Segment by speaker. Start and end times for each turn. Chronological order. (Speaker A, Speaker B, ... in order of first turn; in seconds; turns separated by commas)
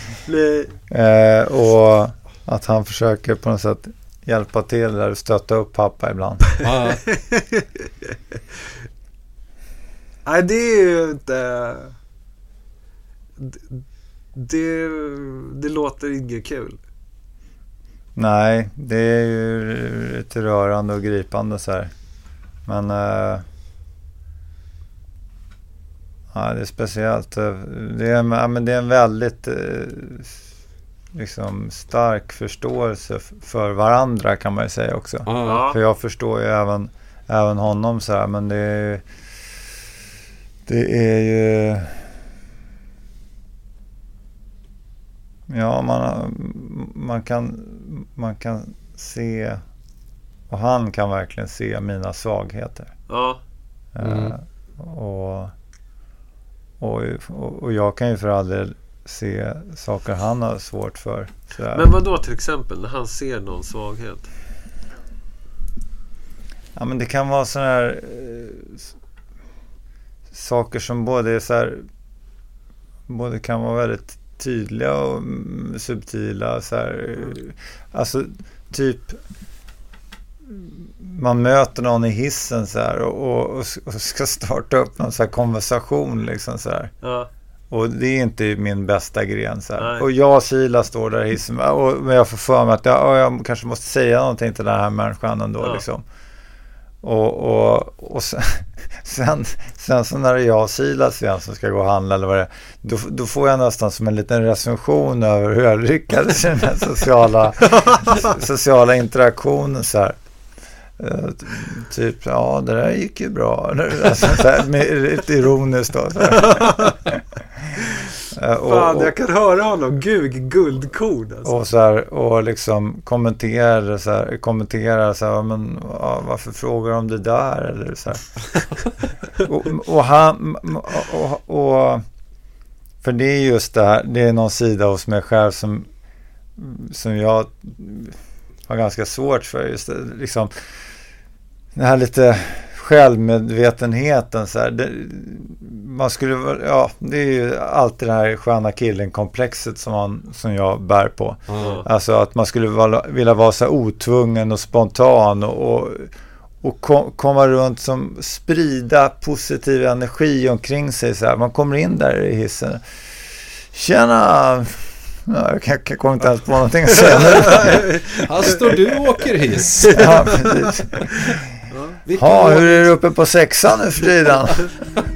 Speaker A: 0.2-0.8, Speaker B: 0.9-6.4, Speaker A: 6.5-8.4, Speaker C: 6.6-7.1, Speaker A: 10.3-11.9, Speaker A: 13.4-13.8, Speaker A: 14.3-16.8, Speaker B: 18.2-21.9, Speaker B: 22.7-23.4, Speaker B: 26.3-30.4, Speaker B: 31.1-39.0, Speaker C: 35.3-35.6, Speaker A: 35.4-35.8, Speaker B: 40.7-42.1, Speaker B: 45.5-49.6, Speaker B: 50.5-52.9, Speaker A: 53.1-53.4, Speaker B: 54.0-55.5, Speaker C: 54.0-54.4, Speaker B: 56.8-61.9, Speaker A: 61.7-64.3, Speaker B: 66.8-68.8, Speaker B: 70.3-71.8, Speaker B: 73.1-79.2, Speaker B: 80.5-86.9, Speaker A: 87.0-87.3, Speaker B: 87.7-96.0, Speaker A: 89.8-90.0, Speaker A: 95.6-95.8, Speaker B: 97.0-110.2, Speaker A: 107.8-108.3, Speaker B: 111.0-117.2, Speaker A: 116.3-117.0, Speaker A: 117.8-118.1, Speaker B: 118.3-119.2, Speaker A: 118.6-121.6, Speaker B: 121.5-128.5, Speaker B: 129.4-132.0, Speaker B: 133.0-135.9, Speaker B: 136.6-140.5, Speaker B: 141.8-168.0, Speaker C: 151.5-151.8, Speaker A: 151.6-151.9, Speaker A: 167.2-168.3, Speaker C: 168.1-170.2, Speaker A: 169.8-172.0, Speaker B: 169.9-171.5, Speaker C: 172.1-172.9, Speaker B: 172.2-174.7